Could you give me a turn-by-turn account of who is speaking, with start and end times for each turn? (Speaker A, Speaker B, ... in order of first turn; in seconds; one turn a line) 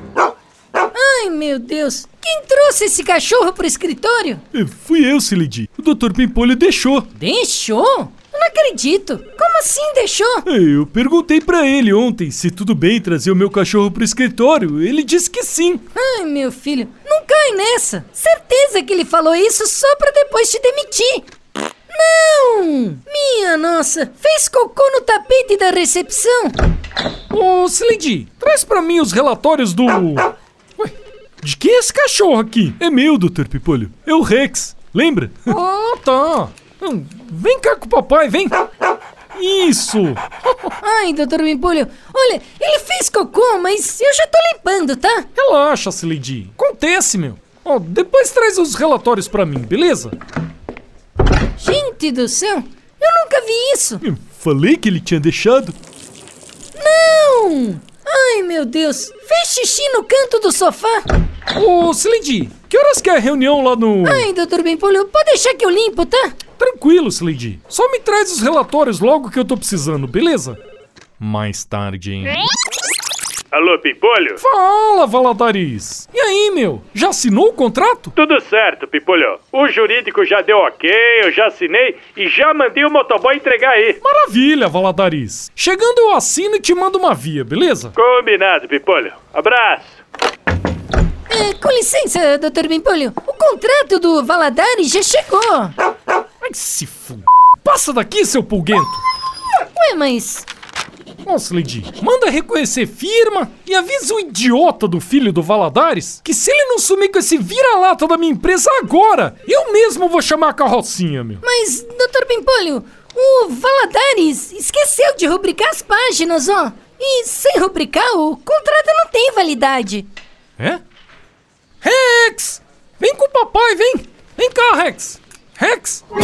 Speaker A: 0.9-4.4
Speaker B: 4.5-7.1
Speaker A: 7.2-10.5
Speaker B: 10.5-15.8
Speaker A: 15.9-21.3
Speaker A: 21.9-26.6
Speaker B: 27.3-38.6
Speaker B: 39.4-40.2
Speaker A: 40.8-45.3
Speaker B: 45.4-50.1
Speaker A: 51.6-54.0
Speaker B: 54.0-55.8
Speaker A: 56.8-61.0
Speaker B: 61.5-64.3
Speaker A: 64.0-66.3
Speaker B: 66.6-70.6
Speaker B: 71.2-72.4
Speaker C: 73.5-74.4
Speaker B: 74.4-78.1
Speaker C: 78.1-84.0
Speaker B: 84.0-87.9
Speaker C: 88.0-90.0
Speaker A: 91.3-95.8
Speaker B: 96.4-99.0
Speaker A: 99.7-100.5
Speaker B: 101.2-111.4
Speaker A: 111.4-120.1
Speaker B: 121.8-126.0